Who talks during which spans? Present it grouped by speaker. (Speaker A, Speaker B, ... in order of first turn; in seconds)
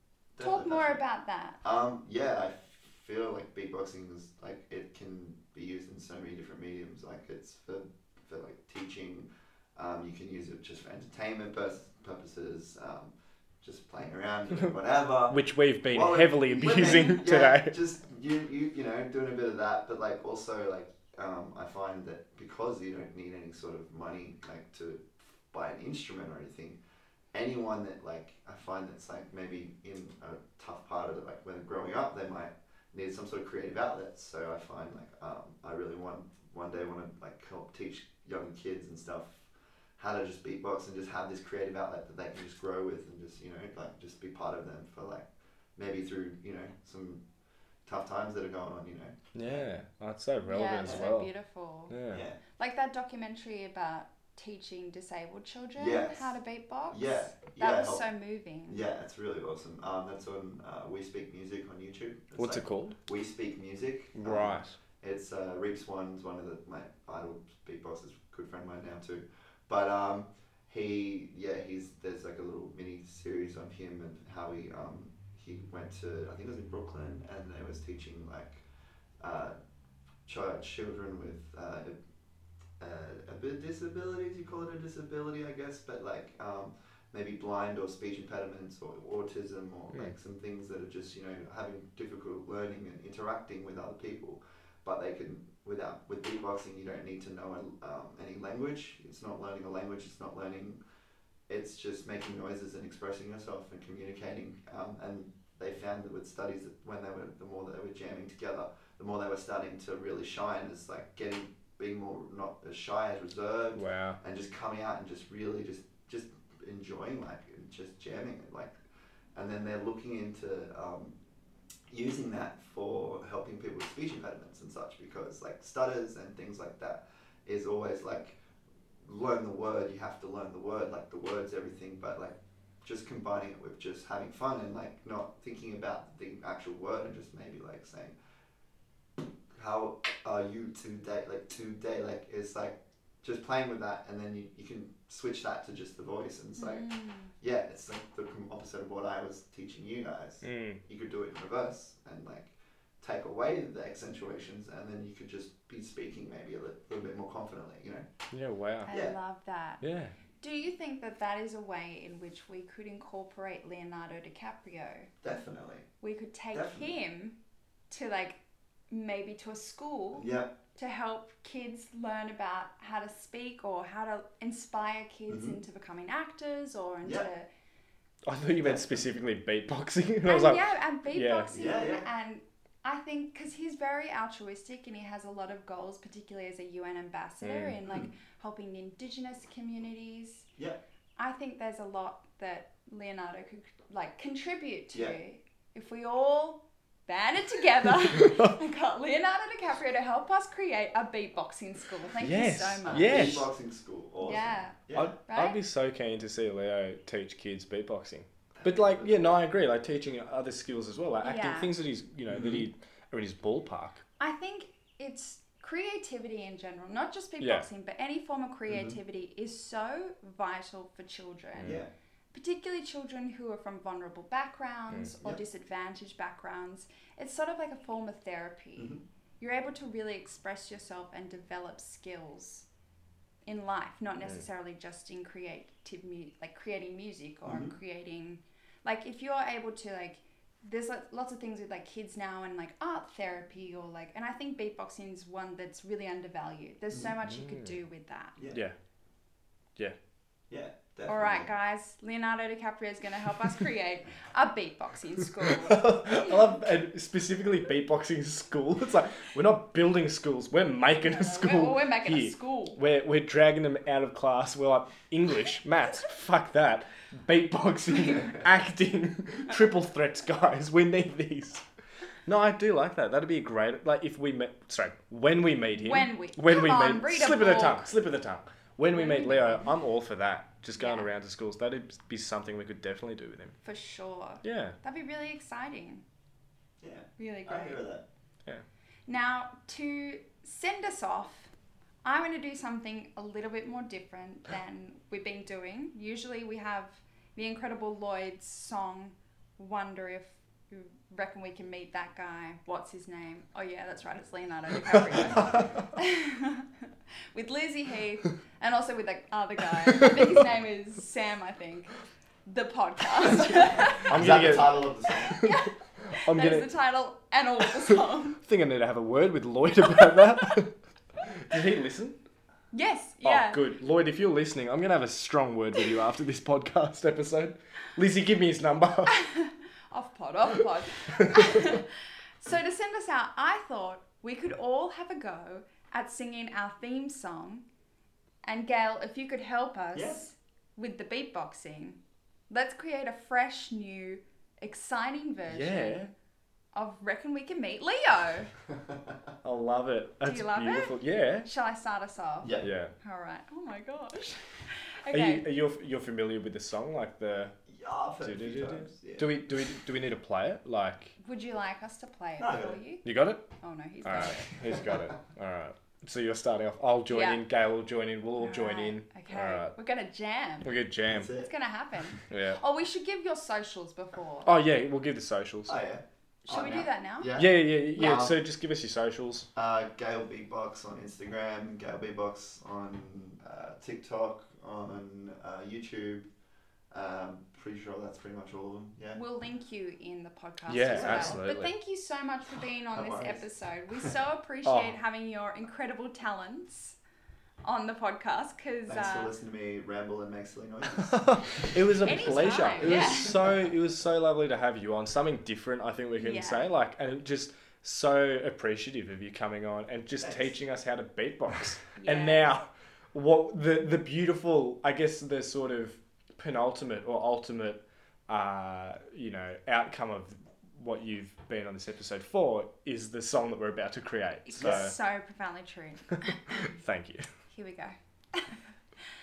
Speaker A: 0.4-1.0, 1.6-26.8, 27.3-47.2, 47.9-49.7, 52.1-52.4, 55.8-56.3, 56.9-58.0, 58.7-78.6, 79.2-79.5, 80.3-82.0, 82.8-100.8, 101.5-118.8, 119.3-121.2, 121.9-128.4, 129.0-138.2, 139.5-146.8, 147.4-158.1, 158.9-159.2, 165.2-165.9, 166.5-166.9, 170.2-170.6, 175.3-175.6, 177.0-177.3, 178.6-179.1, 181.5-182.1, 202.9-205.1, 208.6-209.4, 212.3-212.7, 218.7-219.0, 221.6-221.9, 228.8-229.0, 237.5-237.7, 250.5-251.5, 286.8-288.1, 314.1-315.4, 339.9-340.2, 348.7-349.3, 352.4-352.7, 357.7-359.3, 362.4-362.8, 371.1-371.5, 375.7-378.4, 379.6-386.3, 386.9-389.2, 390.9-391.4, 392.9-393.5, 398.9-402.3, 402.8-403.7, 410.2-410.5, 424.6-424.9
Speaker B: 0.4-1.6, 16.9-17.2, 50.5-51.9, 52.6-58.8, 146.6-147.3, 158.9-159.8, 160.4-165.1, 166.0-167.4, 167.9-177.5, 180.2-190.5, 191.2-203.3, 204.2-205.6, 211.2-211.7, 214.2-221.8, 222.3-232.7, 233.5-248.4, 251.1-256.4, 261.0-262.8, 275.8-277.9, 278.9-279.7, 280.8-281.1, 283.6-286.0, 287.2-287.8, 289.1-291.5, 292.0-306.7, 307.3-311.9, 312.5-314.1, 315.4-318.4, 319.9-320.6, 322.7-323.6, 329.1-337.7, 338.4-342.0, 342.5-346.1, 346.7-348.5, 350.2-355.4, 361.2-363.1, 363.6-364.5, 367.1-367.4, 368.4-370.7, 371.4-374.6, 376.5-377.4, 389.1-397.0, 397.6-399.3, 402.0-403.3, 406.2-406.7, 412.0-412.4, 424.5-426.6, 427.5-428.6
Speaker C: 15.3-17.8, 49.4-51.3, 51.9-52.2, 62.4-63.0, 64.2-64.7, 113.8-114.2, 150.4-150.8, 158.3-158.9, 159.8-160.1, 178.3-181.5, 187.4-187.8, 198.2-198.5, 202.2-203.5, 204.9-214.0, 217.4-217.7, 221.6-221.8, 247.2-247.8, 255.5-271.6, 272.3-283.6, 284.4-284.8, 305.4-305.8, 314.1-315.6, 316.1-316.7, 318.4-320.7, 321.3-322.2, 323.2-329.1, 345.5-346.1, 349.4-351.5, 352.6-352.9, 355.1-357.6, 358.2-361.1, 363.0-363.5, 364.0-369.7, 370.6-371.3, 372.3-372.6, 374.4-375.8, 377.4-379.5, 390.7-391.7, 394.6-395.0, 401.0-424.9, 426.5-427.2